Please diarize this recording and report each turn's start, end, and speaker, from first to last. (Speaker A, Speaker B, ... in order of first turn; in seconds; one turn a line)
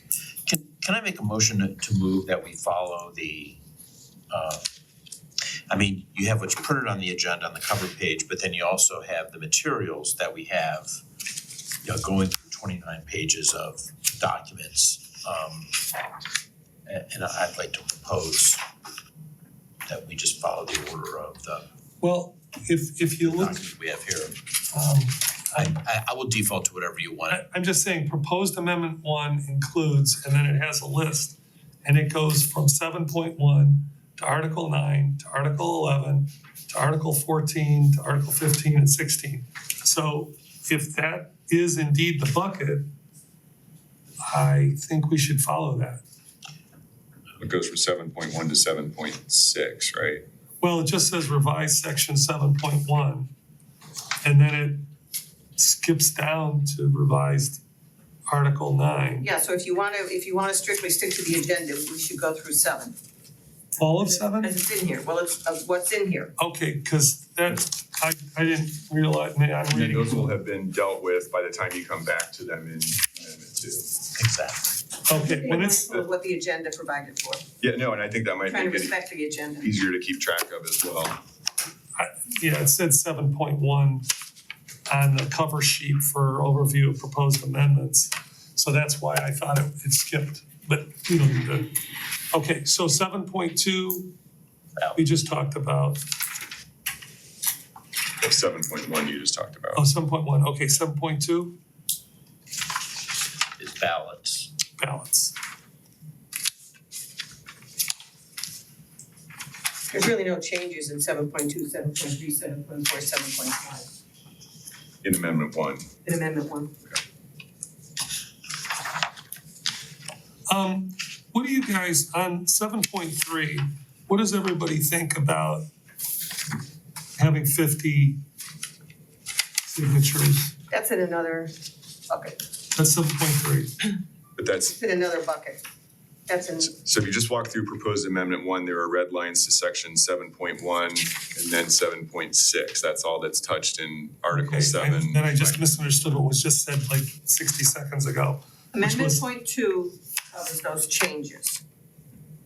Speaker A: 0.5-3.6
Speaker A: 4.3-4.7
Speaker A: 5.7-11.0
Speaker A: 11.8-15.8
Speaker A: 16.9-18.6
Speaker A: 19.9-21.7
Speaker B: 22.0-23.6
Speaker A: 23.2-24.4
Speaker B: 24.7-25.7
Speaker A: 25.6-27.4
Speaker B: 27.3-42.9
Speaker B: 44.3-46.0
Speaker C: 47.4-50.2
Speaker B: 50.6-53.3
Speaker B: 54.2-54.8
Speaker B: 55.6-57.6
Speaker B: 58.3-59.3
Speaker D: 59.2-63.0
Speaker B: 63.8-64.5
Speaker D: 64.2-66.3
Speaker B: 66.4-70.3
Speaker C: 69.7-73.9
Speaker A: 74.2-74.7
Speaker B: 75.1-75.9
Speaker D: 75.1-77.4
Speaker C: 77.6-78.9
Speaker D: 78.5-79.7
Speaker C: 79.6-81.2
Speaker B: 82.0-84.1
Speaker B: 84.9-91.7
Speaker B: 92.3-94.1
Speaker B: 95.0-96.0
Speaker C: 98.2-99.8
Speaker B: 99.8-101.5
Speaker A: 103.6-104.5
Speaker B: 104.8-105.3
Speaker D: 109.9-113.9
Speaker C: 115.0-115.9
Speaker D: 116.0-116.7
Speaker B: 120.5-125.7
Speaker B: 127.2-128.2
Speaker B: 129.7-130.5
Speaker D: 130.7-131.5
Speaker D: 132.1-132.4
Speaker B: 132.8-133.7
Speaker C: 134.4-134.8
Speaker D: 134.8-135.6
Speaker D: 136.3-136.7
Speaker C: 136.7-145.6
Speaker B: 144.3-149.2
Speaker D: 148.7-151.6